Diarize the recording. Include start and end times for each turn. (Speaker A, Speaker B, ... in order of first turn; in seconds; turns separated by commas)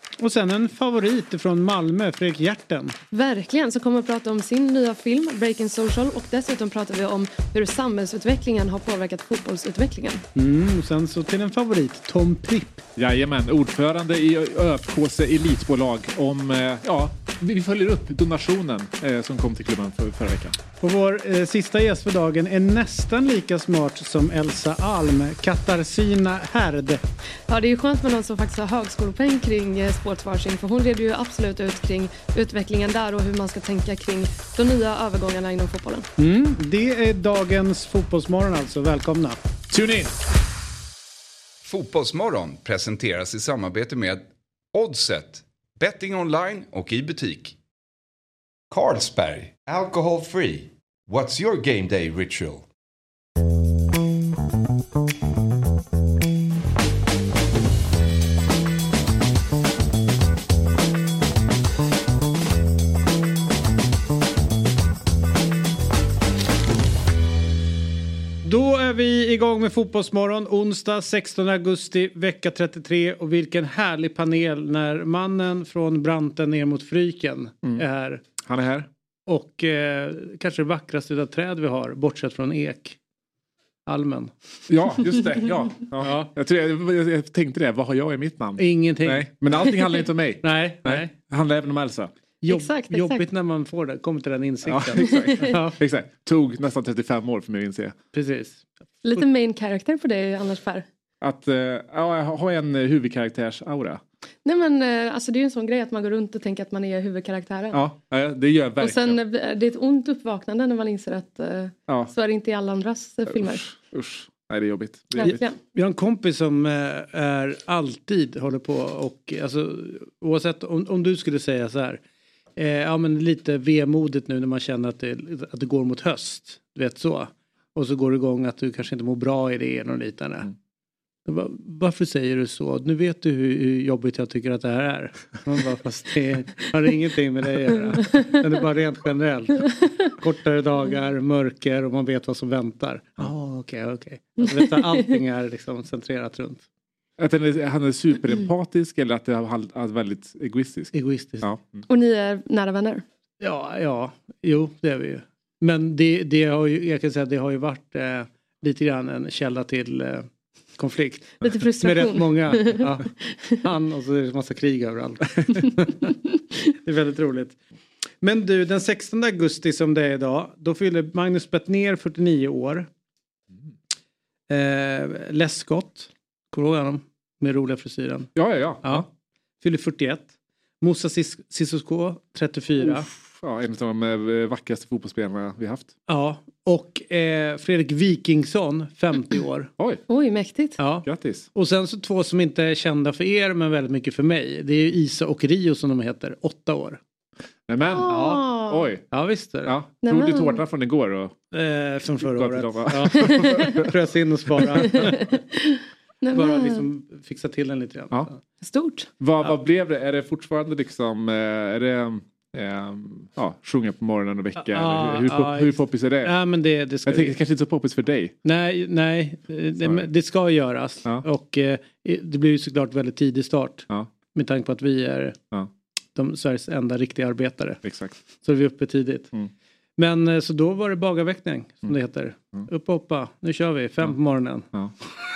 Speaker A: 0.2-3.0, Speaker B: 3.1-10.2, Speaker A: 10.4-12.8, Speaker C: 13.0-20.6, Speaker A: 20.8-27.0, Speaker B: 27.5-36.1, Speaker A: 36.2-39.4, Speaker C: 39.7-40.1, Speaker D: 41.6-47.6, Speaker D: 48.7-52.7, Speaker A: 68.4-78.2, Speaker C: 78.4-78.9, Speaker A: 79.3-83.0, Speaker A: 83.9-84.3, Speaker C: 84.7-92.1, Speaker A: 86.0-86.3, Speaker A: 88.6-89.3, Speaker A: 90.4-91.1, Speaker A: 92.4-95.8, Speaker B: 92.5-93.2, Speaker C: 94.7-98.0, Speaker B: 95.0-95.5, Speaker A: 98.1-98.6, Speaker B: 99.0-100.8, Speaker C: 101.2-104.0, Speaker B: 104.5-107.8, Speaker C: 107.7-109.2, Speaker B: 108.8-113.6, Speaker C: 113.3-115.4, Speaker B: 115.2-115.6, Speaker A: 115.2-122.0, Speaker A: 122.6-130.5, Speaker A: 131.3-146.6, Speaker B: 144.4-145.0, Speaker C: 147.2-151.9, Speaker A: 150.9-151.5, Speaker B: 151.9-153.0, Speaker A: 153.4-166.1, Speaker B: 161.4-163.4, Speaker A: 166.8-167.6, Speaker A: 168.2-172.9, Speaker A: 174.5-179.1, Speaker C: 178.3-179.1, Speaker A: 179.6-180.3, Speaker A: 180.8-183.1, Speaker C: 182.8-185.9, Speaker A: 186.1-189.7, Speaker B: 190.1-190.8, Speaker A: 190.8-197.0, Speaker C: 191.1-191.5, Speaker C: 197.7-199.1, Speaker B: 197.9-198.9, Speaker A: 198.1-198.4, Speaker A: 199.1-199.8, Speaker C: 199.6-201.4, Speaker B: 200.0-200.6, Speaker A: 201.5-205.2, Speaker C: 202.2-203.9, Speaker B: 203.2-203.8, Speaker B: 204.9-206.8, Speaker A: 206.3-208.4, Speaker B: 208.6-209.1, Speaker C: 209.2-216.3, Speaker A: 214.6-217.4, Speaker C: 217.1-218.3, Speaker A: 218.4-225.4, Speaker C: 219.8-220.1, Speaker A: 226.2-227.8, Speaker C: 227.8-228.2, Speaker A: 228.4-229.3, Speaker A: 230.0-234.7